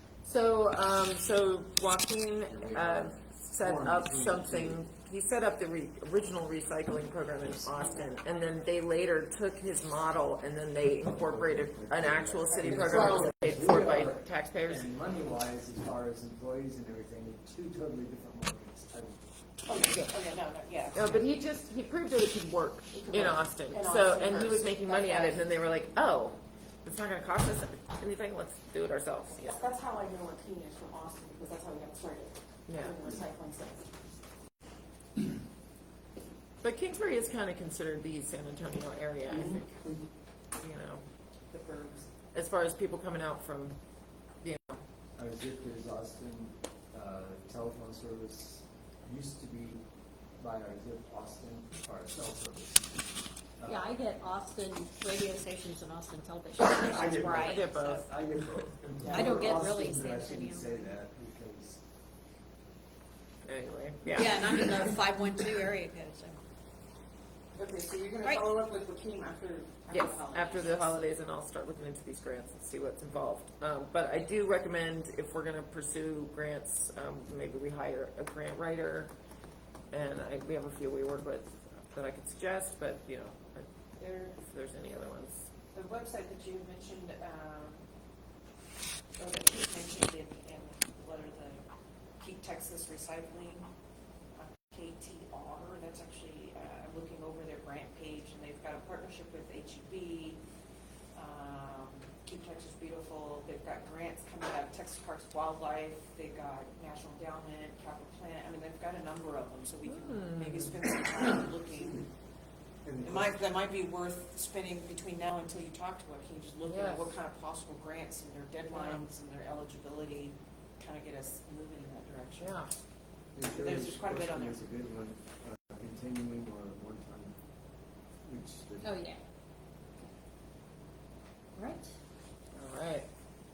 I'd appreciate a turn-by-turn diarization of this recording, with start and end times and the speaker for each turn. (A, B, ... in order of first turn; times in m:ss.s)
0:00.2-0:14.9 A
0:02.5-0:04.8 B
0:11.1-0:19.2 B
0:12.5-0:13.3 C
0:19.6-0:21.2 C
0:20.9-0:29.6 A
0:22.9-0:25.4 C
0:29.3-0:33.9 C
0:32.7-0:33.0 A
0:36.6-0:39.8 A
0:39.3-0:39.9 B
0:40.5-0:41.0 A
0:41.5-0:42.1 C
0:42.3-0:43.8 A
0:44.4-0:44.8 A
0:45.2-0:49.8 B
0:50.4-0:52.9 B
0:53.6-0:53.9 B
0:53.6-0:58.0 D
0:56.6-1:01.8 B
0:57.4-0:58.1 A
0:59.1-1:00.8 D
1:03.4-1:05.0 A
1:04.1-1:06.4 D
1:07.6-1:10.9 C
1:09.9-1:19.1 A
1:19.9-1:25.5 A
1:24.0-1:24.3 C
1:25.7-1:27.8 C
1:29.2-1:31.6 C
1:32.2-1:33.6 C
1:34.4-1:40.4 C
1:41.1-1:52.1 C
1:49.8-1:50.8 A
1:52.8-1:53.3 B
1:53.0-2:02.6 C
1:56.6-1:57.1 A
1:58.7-1:59.0 A
2:02.4-2:02.7 A
2:03.3-2:07.4 B
2:03.5-2:04.6 C
2:08.2-2:09.0 B
2:08.8-2:09.2 D
2:11.5-2:11.9 D
2:12.5-2:13.1 A